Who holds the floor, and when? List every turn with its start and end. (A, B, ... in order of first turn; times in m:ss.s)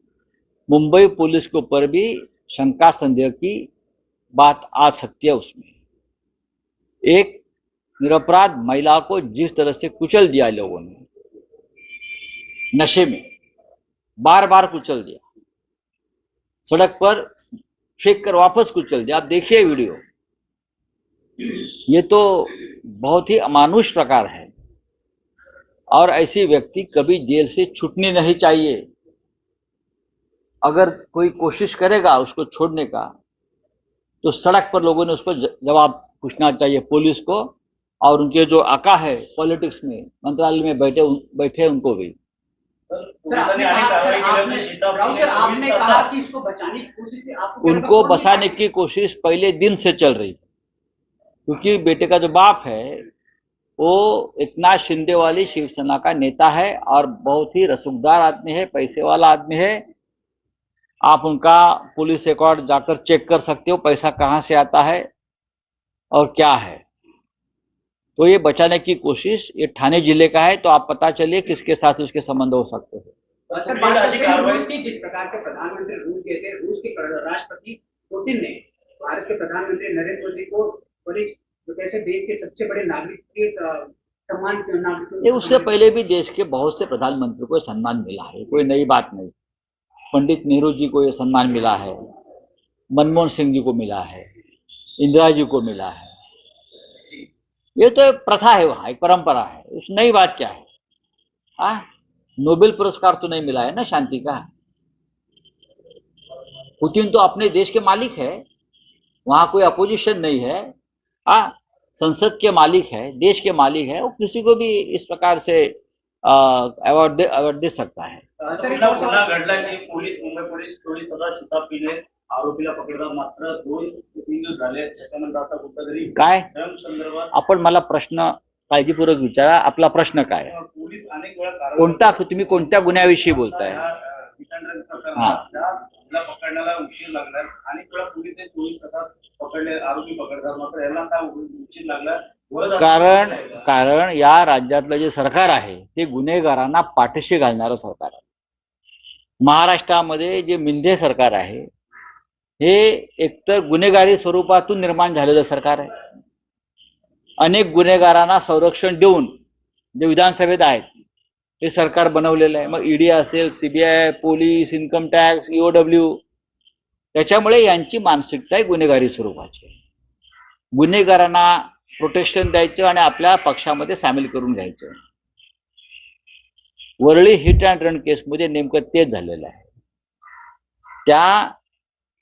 0:00.7-0:03.7 A
0:04.4-0:05.7 A
0:07.1-0:07.4 A
0:08.0-0:11.0 A
0:12.7-0:13.2 A
0:14.2-0:15.2 A
0:16.7-0:17.3 A
0:18.0-0:20.0 A
0:21.9-0:24.5 A
0:25.9-0:28.8 A
0:30.6-0:33.1 A
0:34.2-0:42.2 A
0:42.9-0:46.1 B
0:43.3-0:48.5 C
0:47.6-0:50.4 A
0:51.5-0:53.0 A
0:53.8-0:59.8 A
1:01.1-1:05.1 A
1:06.1-1:06.8 A
1:08.2-1:13.1 A
1:13.5-1:14.7 B
1:13.5-1:25.8 C
1:25.2-1:29.3 A
1:30.1-1:32.0 A
1:33.0-1:34.3 A
1:35.0-1:36.1 A
1:37.8-1:40.6 A
1:42.4-1:44.5 A
1:46.8-1:48.4 A
1:49.3-1:50.7 A
1:51.3-1:58.2 A
1:58.4-2:07.3 B
1:58.5-1:59.7 C
2:06.2-2:06.5 A
2:07.3-2:10.5 A
2:10.4-2:23.6 B
2:11.8-2:13.8 A
2:22.8-2:28.2 A
2:29.4-2:31.7 A
2:32.6-2:35.9 A
2:37.4-2:39.3 A
2:40.0-2:40.9 A
2:41.6-2:46.2 A
2:47.1-2:49.7 A
2:50.8-2:54.9 A
2:57.0-2:59.7 A
3:01.1-3:01.5 A